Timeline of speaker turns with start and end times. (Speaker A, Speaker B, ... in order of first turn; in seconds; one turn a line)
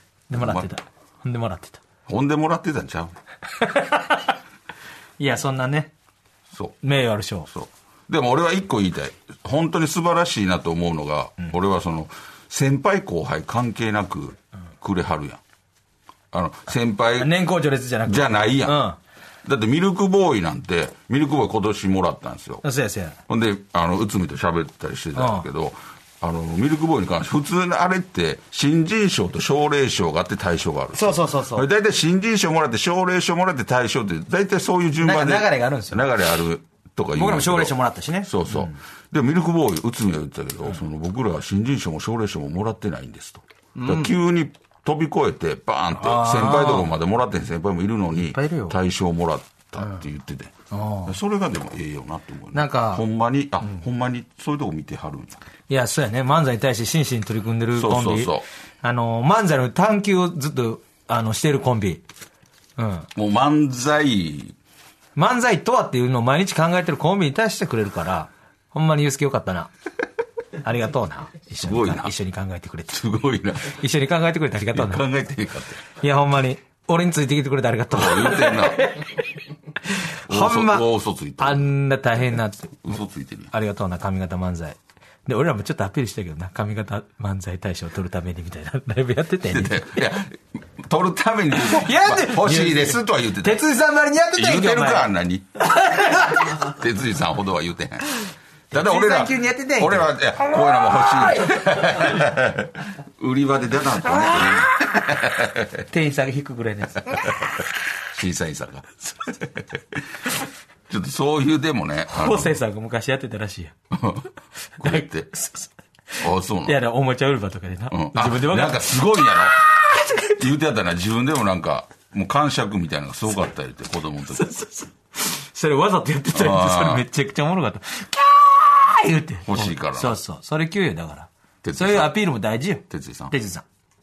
Speaker A: 0.3-1.8
Speaker B: 0.3-0.7
Speaker B: 2.1-3.1
Speaker A: 3.5-4.2
Speaker A: 5.2-5.9
Speaker B: 6.5-6.8
Speaker A: 6.8-7.5
Speaker B: 7.5-15.4
Speaker B: 16.3-17.3
Speaker A: 17.2-19.0
Speaker B: 18.1-18.8
Speaker B: 19.4-22.6
Speaker A: 22.6-23.2
Speaker B: 23.3-37.7
Speaker A: 25.1-25.4
Speaker A: 30.9-31.6
Speaker A: 35.0-36.0
Speaker A: 37.1-38.7
Speaker B: 38.2-50.5
Speaker A: 43.8-44.1
Speaker A: 46.0-46.9
Speaker A: 48.2-48.8
Speaker A: 50.7-51.1
Speaker B: 51.0-55.4
Speaker A: 52.5-53.0
Speaker A: 55.7-62.0
Speaker B: 57.7-58.5
Speaker A: 62.8-63.1
Speaker B: 63.1-64.5
Speaker A: 65.2-69.7
Speaker A: 70.6-73.0
Speaker B: 71.6-72.1
Speaker B: 72.9-73.8
Speaker A: 73.6-75.0
Speaker B: 74.7-75.8
Speaker A: 76.0-79.2
Speaker B: 77.9-79.0
Speaker A: 79.9-80.8
Speaker B: 80.3-81.7
Speaker A: 81.4-82.8
Speaker B: 82.8-83.5
Speaker A: 83.5-89.9
Speaker B: 89.5-93.6
Speaker A: 91.6-96.6
Speaker B: 94.3-95.6
Speaker B: 96.4-98.1
Speaker A: 98.7-101.7
Speaker B: 98.7-105.9
Speaker A: 104.2-105.0
Speaker A: 105.9-107.6
Speaker B: 108.0-110.0
Speaker B: 110.9-112.6
Speaker A: 112.1-113.7
Speaker B: 113.9-114.3
Speaker A: 114.8-120.4
Speaker B: 114.8-115.3
Speaker B: 116.2-116.8
Speaker B: 117.9-119.6
Speaker B: 120.3-124.5
Speaker A: 124.3-133.6
Speaker B: 126.3-127.0
Speaker B: 129.4-130.2
Speaker B: 131.6-132.2
Speaker B: 132.9-133.3